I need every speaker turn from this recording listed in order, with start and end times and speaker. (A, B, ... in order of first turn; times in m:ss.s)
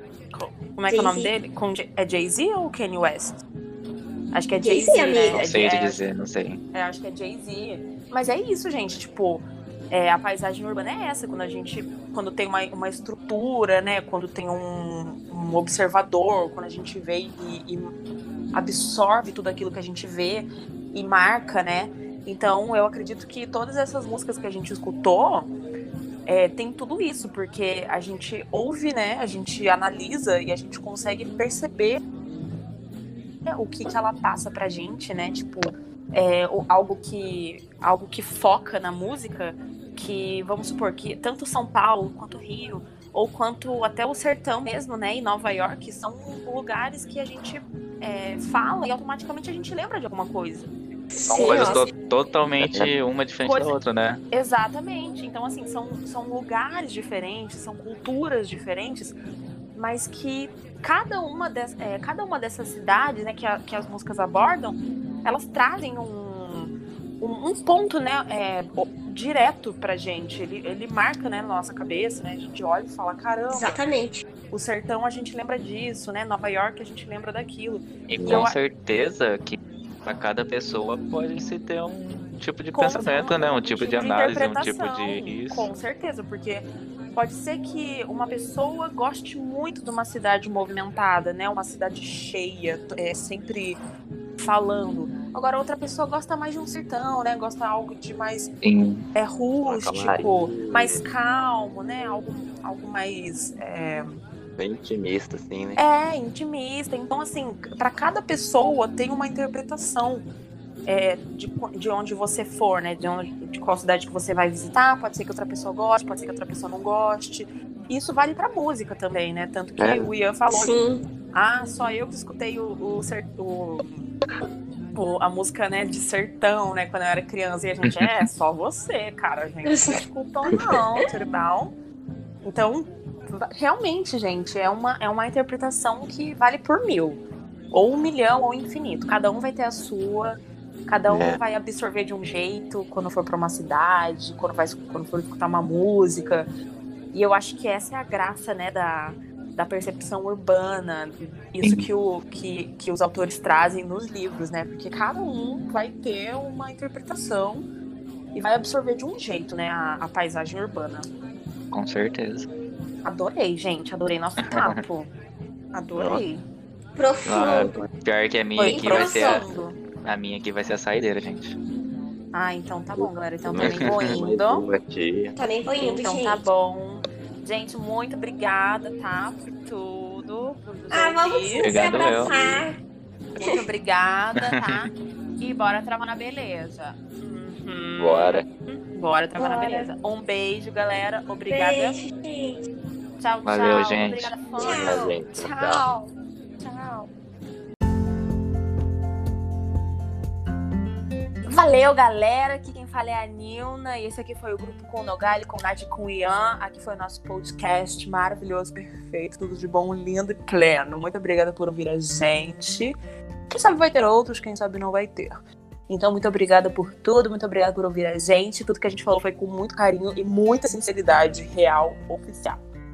0:00.3-0:03.4 A
0:00.9-0:01.3 B
0:04.3-0:06.0 A
0:04.5-0:05.5 B
0:05.3-0:06.6 C
0:06.7-0:17.9 A
0:18.5-0:25.5 A
0:26.2-0:32.0 A
0:33.4-0:50.7 A
0:51.1-0:51.9 B
0:51.2-0:51.8 D
0:51.3-0:54.2 C
0:52.6-0:52.9 D
0:53.4-0:53.8 A
0:54.3-0:59.2 A
0:59.7-1:13.8 A
1:13.5-1:14.2 B
1:14.5-1:18.6 A
1:18.1-1:25.7 C
1:22.7-1:33.8 A
1:34.4-1:38.5 A
1:38.6-1:39.0 C
1:39.1-1:44.2 A
1:39.6-1:41.1 D
1:44.6-1:45.8 D
1:45.8-1:50.2 A
1:50.8-2:00.8 A
1:59.8-2:00.1 D
2:00.5-2:01.0 B
2:01.3-2:04.1 A
2:05.0-2:11.7 A
2:07.8-2:08.2 C
2:09.6-2:10.0 B
2:12.4-2:17.2 A
2:17.7-2:26.5 A
2:21.1-2:21.4 D
2:27.1-2:37.6 A
2:38.3-2:41.1 A
2:41.7-2:42.5 C
2:43.0-2:45.1 A
2:44.4-2:44.8 C
2:45.7-2:46.4 A
2:45.9-2:46.2 D
2:47.0-2:47.8 B
2:47.2-2:49.5 C
2:48.6-2:49.8 A
2:48.7-2:49.4 B
2:50.0-2:51.6 C
2:52.3-2:54.7 A
2:52.9-2:55.3 D
2:53.6-2:54.2 C
2:55.4-2:56.4 B
2:55.8-3:01.8 A
3:00.9-3:02.8 B
3:01.6-3:02.3 C
3:02.2-3:02.6 D
3:03.3-3:12.0 A
3:08.0-3:08.5 D
3:09.4-3:09.9 B
3:11.5-3:12.6 B
3:13.2-3:17.1 A
3:13.4-3:14.4 C
3:14.6-3:15.2 B
3:14.6-3:15.8 D
3:21.5-3:32.9 A
3:33.5-3:42.6 A